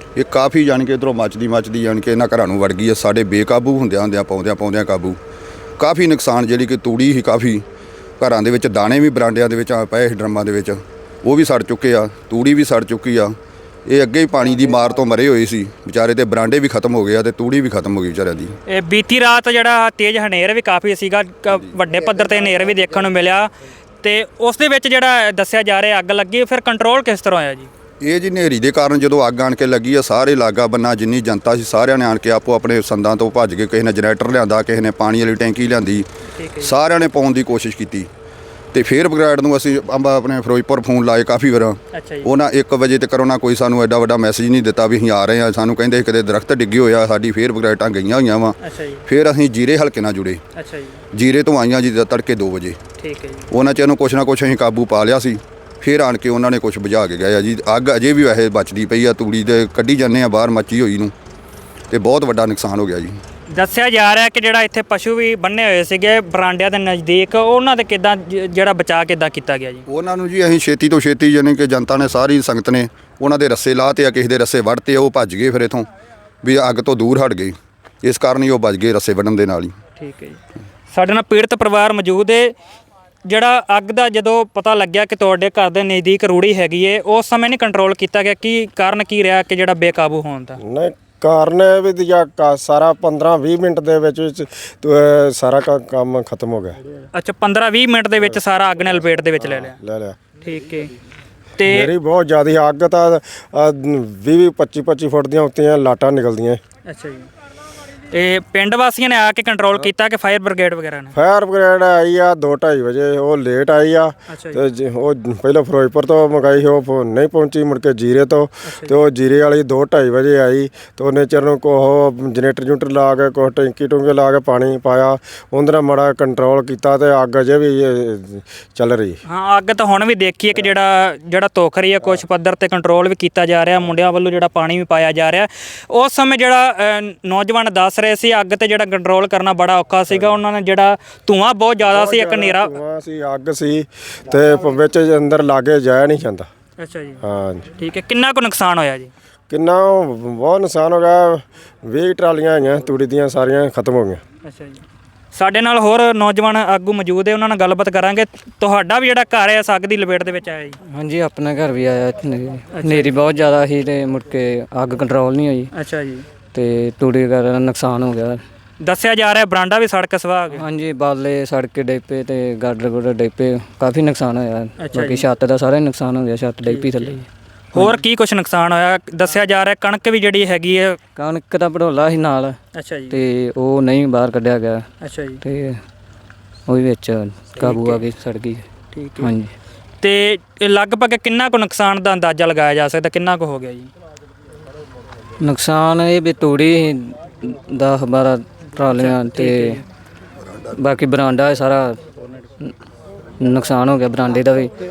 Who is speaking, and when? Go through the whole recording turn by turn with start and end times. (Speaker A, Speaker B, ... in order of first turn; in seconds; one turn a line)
Speaker A: 0.2-5.2
Speaker A: 5.8-7.6
Speaker A: 8.2-13.3
Speaker A: 13.9-18.6
Speaker B: 18.7-23.5
Speaker B: 24.0-27.7
Speaker A: 28.0-36.1
Speaker B: 36.4-36.7
Speaker A: 36.6-38.1
Speaker A: 38.7-48.6
Speaker B: 41.9-42.3
Speaker B: 48.6-49.0
Speaker A: 49.1-50.4
Speaker B: 50.6-51.0
Speaker A: 51.1-52.8
Speaker B: 53.0-53.5
Speaker A: 53.5-61.1
Speaker A: 61.9-63.1
Speaker B: 63.5-69.8
Speaker A: 69.9-75.9
Speaker A: 76.4-79.7
Speaker B: 80.0-80.4
Speaker B: 80.9-82.5
Speaker B: 83.3-90.6
Speaker C: 90.6-96.8
Speaker B: 97.1-99.8
Speaker C: 99.4-100.2
Speaker B: 100.4-100.9
Speaker B: 101.6-101.9
Speaker C: 101.7-106.6
Speaker B: 106.9-107.3
Speaker B: 108.1-111.1
Speaker C: 111.1-129.2
Speaker B: 114.3-114.6
Speaker B: 118.7-118.9
Speaker B: 129.3-142.7
Speaker C: 141.9-146.5
Speaker B: 146.8-147.2
Speaker C: 147.2-147.7
Speaker B: 147.8-149.1
Speaker C: 149.5-154.2
Speaker B: 154.4-154.8
Speaker B: 155.3-160.8
Speaker D: 160.9-165.7
Speaker B: 162.7-163.2
Speaker B: 165.8-166.3
Speaker D: 166.5-168.4
Speaker B: 168.8-170.7
Speaker D: 170.5-178.0
Speaker B: 174.8-175.2
Speaker B: 176.6-177.2
Speaker B: 177.8-181.0
Speaker D: 181.2-182.6
Speaker B: 182.8-183.2
Speaker D: 183.1-184.9
Speaker B: 185.0-185.4
Speaker D: 185.4-185.8
Speaker D: 186.7-188.7
Speaker B: 187.6-188.0
Speaker B: 188.9-189.3
Speaker D: 189.2-189.5
Speaker B: 190.0-193.9
Speaker D: 195.4-199.8
Speaker B: 198.8-199.8
Speaker D: 200.8-202.1
Speaker D: 203.4-204.7